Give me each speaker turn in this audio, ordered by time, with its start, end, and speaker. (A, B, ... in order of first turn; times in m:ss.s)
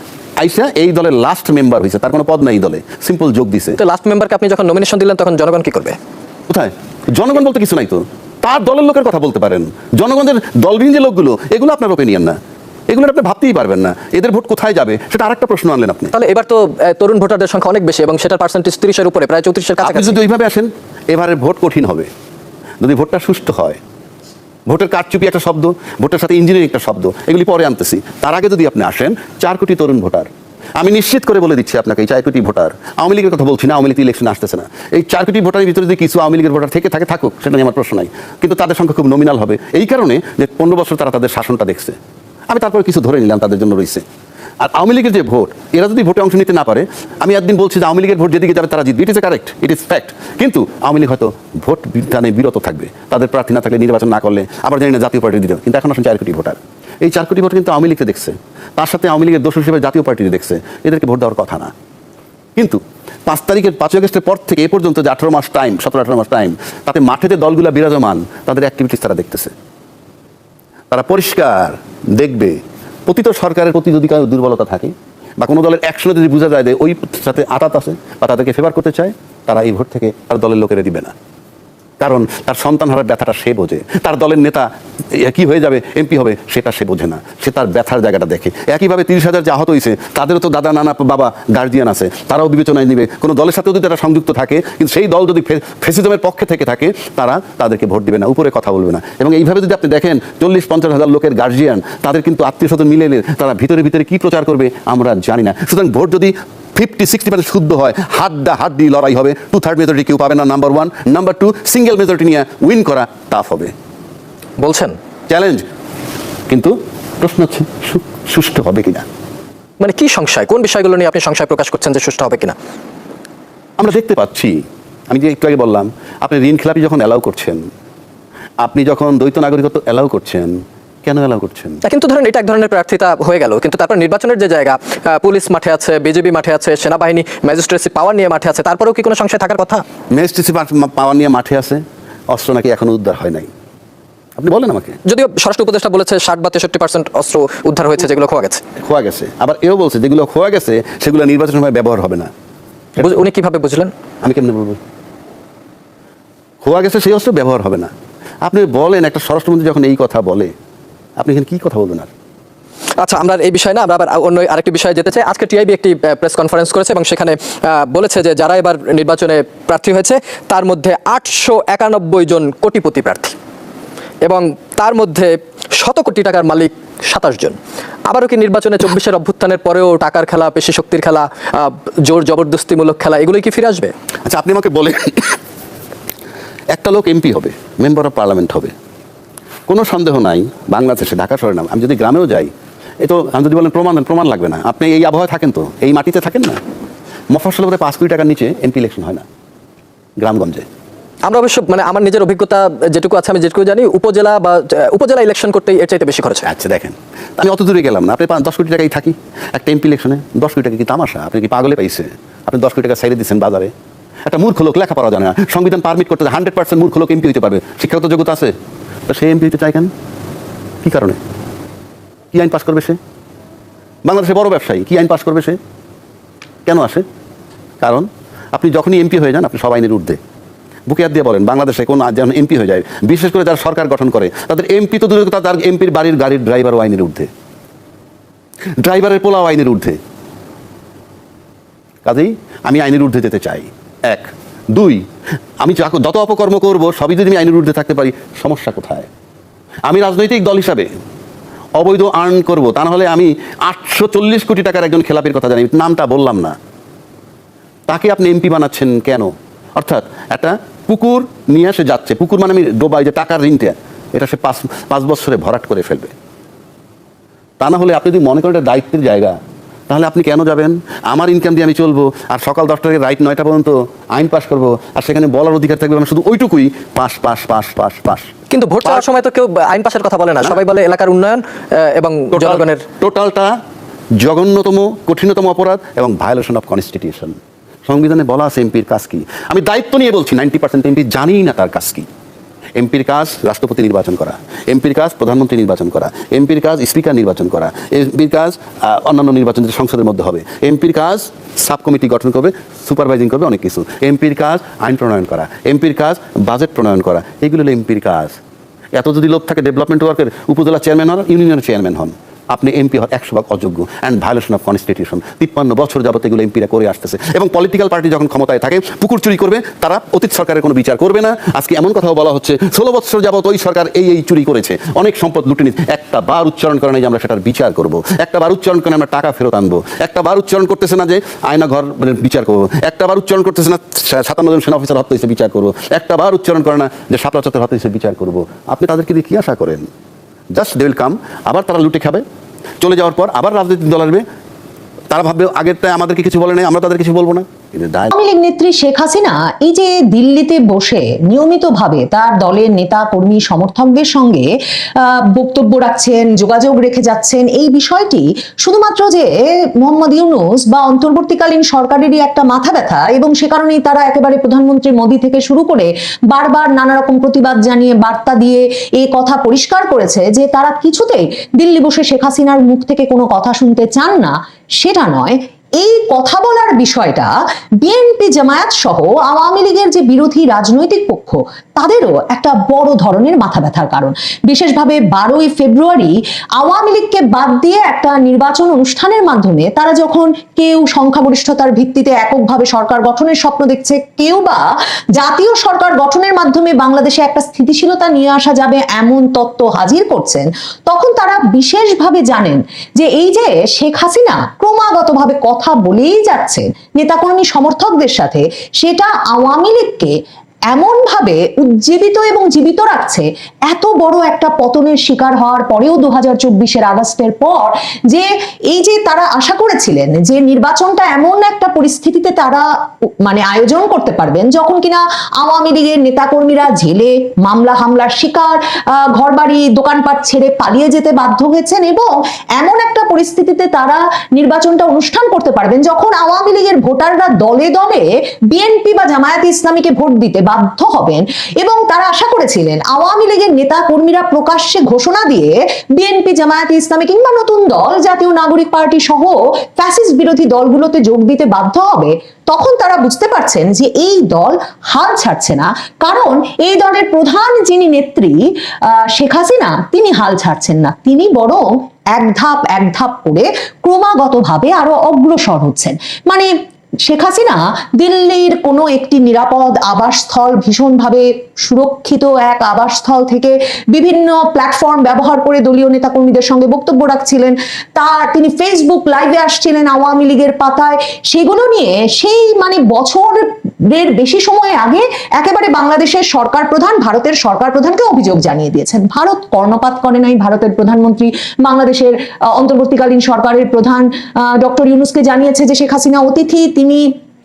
0:00.4-0:03.8 A
0:03.8-0:06.0 B
0:06.5-0:12.4 A
0:12.9-0:16.1 A
0:16.1-0:20.1 B
0:19.8-0:22.1 A
0:22.8-0:23.8 A
0:24.7-0:42.0 A
0:42.5-0:44.0 A
0:44.6-1:01.7 A
1:02.6-1:09.5 A
1:10.9-1:21.1 A
1:22.0-1:53.7 A
1:54.6-1:55.0 B
1:55.3-1:55.6 A
1:56.5-1:59.0 A
1:59.8-2:02.6 B
2:03.8-2:07.6 A
2:08.6-2:11.8 A
2:11.8-2:19.8 B
2:20.1-2:23.5 A
2:24.4-2:25.0 A
2:25.0-2:28.6 B
2:28.8-2:32.3 A
2:33.0-2:33.9 B
2:34.2-2:34.8 A
2:36.6-2:37.9 A
2:38.4-2:40.5 A
2:41.2-2:42.1 A
2:43.0-2:53.4 B
2:54.2-2:57.6 B
2:58.1-3:03.9 B
3:04.2-3:05.4 A
3:06.7-3:08.7 A
3:09.7-3:16.6 A
3:17.3-3:19.2 A
3:20.2-3:20.6 A
3:21.2-3:26.5 B
3:26.4-3:33.7 A
3:34.2-3:38.5 A
3:39.1-3:39.9 A
3:40.8-3:41.2 A
3:42.3-3:43.0 A
3:44.0-3:45.6 A
3:46.6-3:47.0 A
3:47.8-3:50.2 A
3:50.9-3:57.3 A
3:58.8-4:00.0 A
4:02.0-4:05.0 A
4:05.6-4:09.1 A
4:09.9-4:10.9 A
4:11.8-4:16.6 A
4:17.9-4:26.1 A
4:27.6-4:29.4 A
4:29.9-4:38.3 A
4:38.5-4:42.8 B
4:42.3-4:43.5 A
4:44.2-4:47.4 A
4:47.9-4:52.0 A
4:52.8-5:08.4 A
5:08.9-5:39.9 A
5:40.5-5:42.2 A
5:42.8-5:44.2 A
5:45.1-5:48.1 A
5:48.1-6:50.2 C
6:50.7-7:02.7 C
7:03.2-7:46.5 C
7:47.0-8:17.1 C